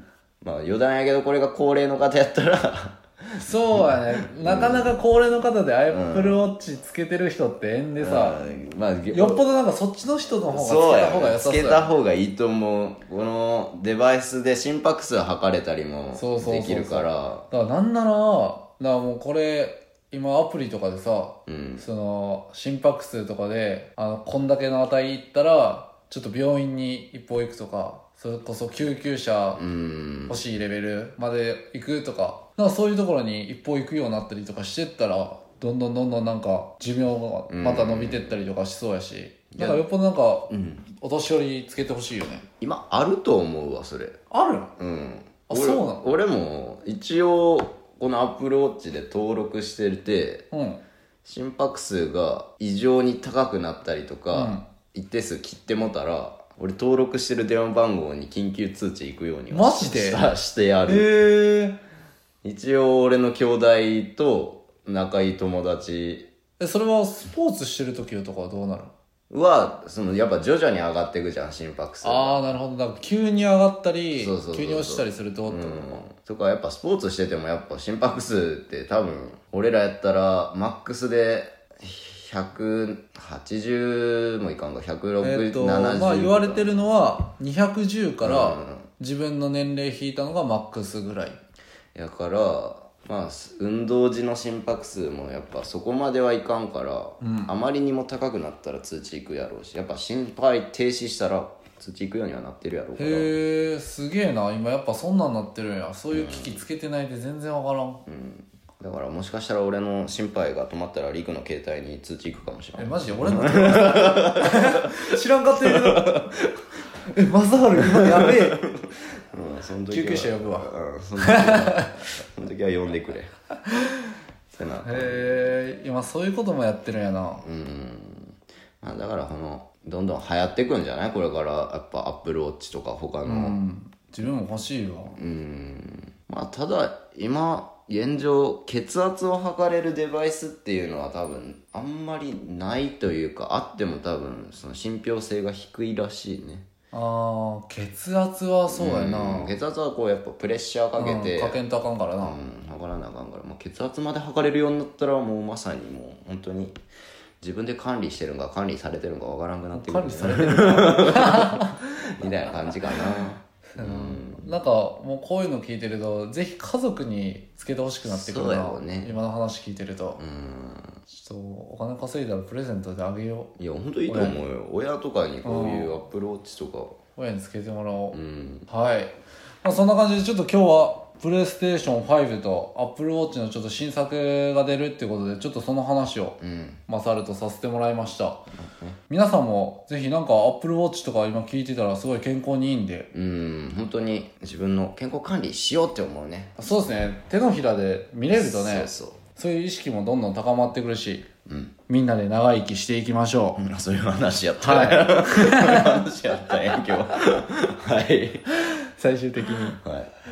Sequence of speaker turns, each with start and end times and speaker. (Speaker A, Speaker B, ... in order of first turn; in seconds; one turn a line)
Speaker A: 0.4-5.0
Speaker B: 3.4-8.4
Speaker A: 5.9-6.5
Speaker A: 8.0-9.4
Speaker B: 9.1-11.9
Speaker A: 10.5-17.5
Speaker B: 16.1-29.6
Speaker A: 21.5-21.9
Speaker A: 29.6-30.4
Speaker B: 30.3-42.5
Speaker A: 37.5-38.4
Speaker A: 39.5-39.8
Speaker A: 40.5-40.9
Speaker A: 42.6-44.2
Speaker B: 44.3-44.7
Speaker A: 44.8-50.5
Speaker B: 45.5-46.1
Speaker B: 50.5-50.8
Speaker A: 51.2-61.1
Speaker B: 54.3-54.6
Speaker B: 59.5-60.2
Speaker B: 60.9-61.8
Speaker A: 62.4-66.3
Speaker B: 66.6-68.9
Speaker A: 69.3-72.5
Speaker B: 72.0-76.0
Speaker A: 74.2-86.8
Speaker B: 85.2-91.4
Speaker A: 88.2-88.9
Speaker A: 92.0-103.4
Speaker B: 97.2-97.5
Speaker B: 103.0-108.0
Speaker A: 106.1-106.6
Speaker A: 108.1-116.5
Speaker B: 112.8-116.3
Speaker B: 117.1-118.6
Speaker A: 117.8-123.3
Speaker B: 119.9-122.0
Speaker A: 124.5-125.5
Speaker B: 124.8-127.4
Speaker A: 127.4-133.6
Speaker B: 133.2-135.2
Speaker A: 135.2-146.7
Speaker B: 146.9-149.5
Speaker A: 148.7-151.6
Speaker B: 151.0-152.4
Speaker A: 152.2-156.8
Speaker A: 157.4-164.5
Speaker B: 159.7-161.8
Speaker B: 163.7-170.2
Speaker A: 168.1-169.2
Speaker A: 170.2-171.0
Speaker B: 171.1-173.5
Speaker A: 173.6-177.0
Speaker B: 174.1-174.4
Speaker B: 175.4-176.0
Speaker B: 177.2-178.2
Speaker A: 178.1-178.7
Speaker B: 178.7-188.4
Speaker A: 186.4-186.8
Speaker A: 188.6-189.0
Speaker B: 189.1-193.1
Speaker A: 193.1-196.6
Speaker B: 196.6-201.3
Speaker A: 198.3-199.2
Speaker A: 201.5-201.7
Speaker B: 201.9-203.6
Speaker A: 203.6-208.5
Speaker B: 204.6-206.0
Speaker B: 208.7-209.8
Speaker A: 209.8-210.1